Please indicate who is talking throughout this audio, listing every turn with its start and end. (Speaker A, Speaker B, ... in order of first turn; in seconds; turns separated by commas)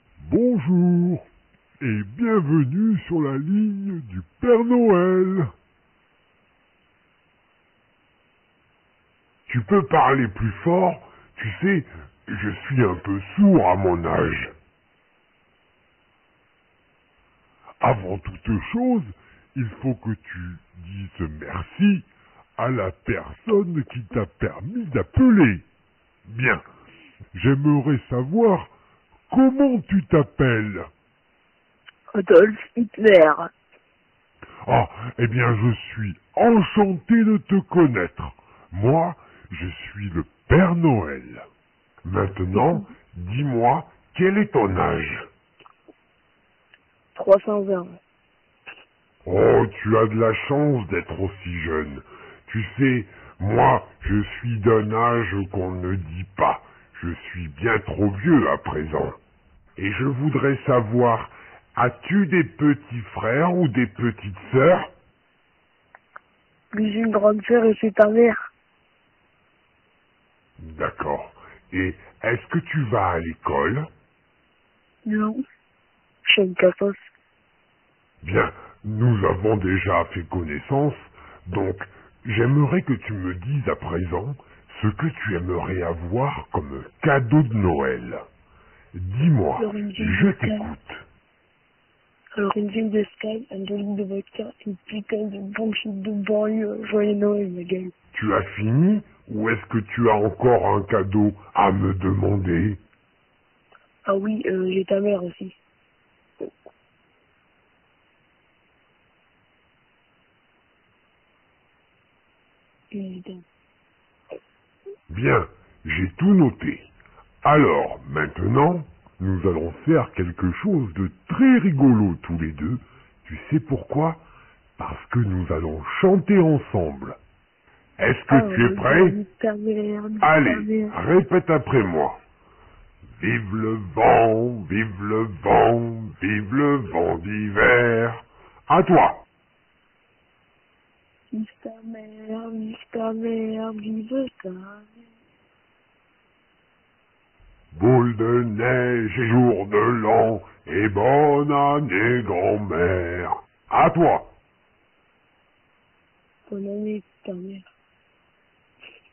Speaker A: 0.2-1.3, Speaker A: 1.8-5.5, Speaker A: 9.5-14.5, Speaker A: 17.8-25.6, Speaker A: 26.3-26.6, Speaker A: 27.3-28.7, Speaker A: 29.3-30.9, Speaker B: 32.1-33.5, Speaker A: 34.6-41.5, Speaker A: 42.0-45.3, Speaker B: 42.5-42.9, Speaker B: 47.1-48.0, Speaker A: 49.2-59.2, Speaker A: 59.8-64.9, Speaker B: 66.7-68.4, Speaker A: 70.6-73.9, Speaker B: 75.0-75.4, Speaker B: 76.2-77.0, Speaker A: 78.2-88.2, Speaker A: 88.9-91.0, Speaker B: 89.6-90.7, Speaker B: 92.4-97.9, Speaker A: 98.1-102.8, Speaker B: 104.1-105.6, Speaker B: 112.9-113.5, Speaker A: 115.1-116.9, Speaker A: 117.4-124.2, Speaker A: 124.8-127.2, Speaker A: 128.0-129.2, Speaker B: 128.3-131.0, Speaker A: 130.2-132.2, Speaker A: 133.2-139.2, Speaker B: 141.3-144.9, Speaker A: 147.7-154.3, Speaker B: 156.5-157.7